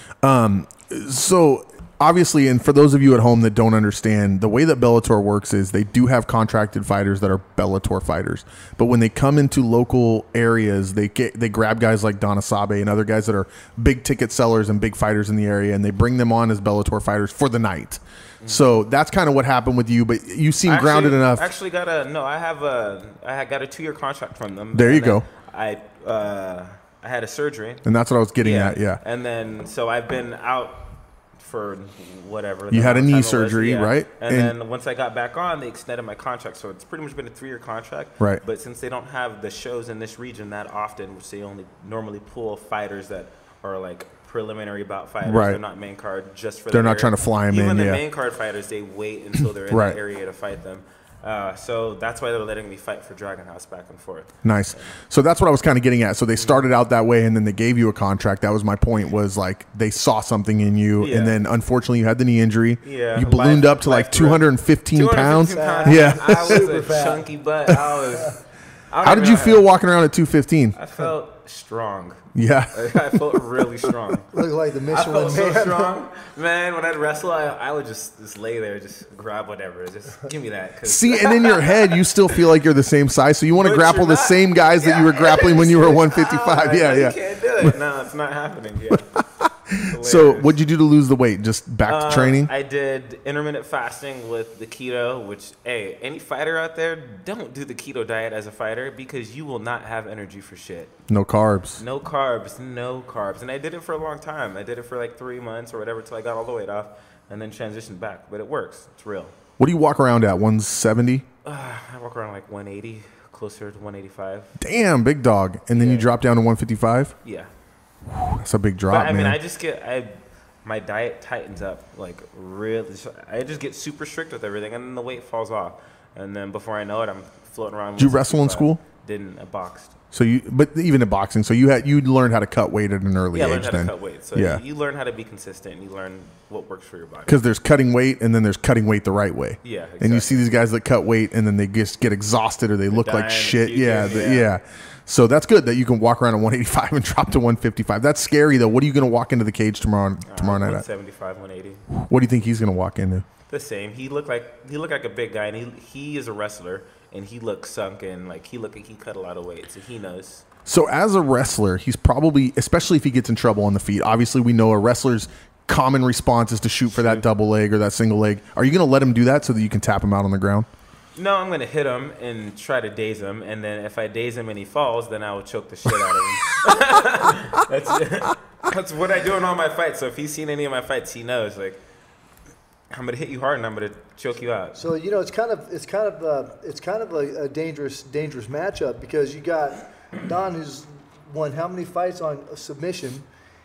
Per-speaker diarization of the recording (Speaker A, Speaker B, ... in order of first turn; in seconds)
Speaker A: 0.2-21.4, 24.7-25.2, 27.8-29.0, 32.7-34.5, 45.2-45.6, 46.7-48.0, 49.7-50.0, 54.4-66.7, 69.0-70.8, 72.3-73.2, 80.8-87.7, 89.2-92.5, 101.1-101.8, 109.6-111.2, 114.6-117.1, 118.1-119.4, 128.0-128.8, 130.1-134.6, 137.3-150.8, 151.9-153.2, 160.7-170.7
Speaker B: 18.4-18.8, 20.6-27.8, 28.4-55.0, 56.4-56.7, 61.0-61.4, 62.8-69.7, 70.7-74.3, 74.9-82.4, 83.5-89.1, 89.9-90.6, 91.8-100.9, 101.8-109.3, 111.4-114.6, 115.7-116.1, 117.2-117.5, 118.9-129.9, 133.3-137.4, 139.6-140.4, 142.9-144.5, 150.2-151.8, 153.5-160.4, 166.9-167.2, 171.1-181.8, 182.9-184.8
Speaker C: 65.5-67.3, 74.3-75.9, 184.8-193.2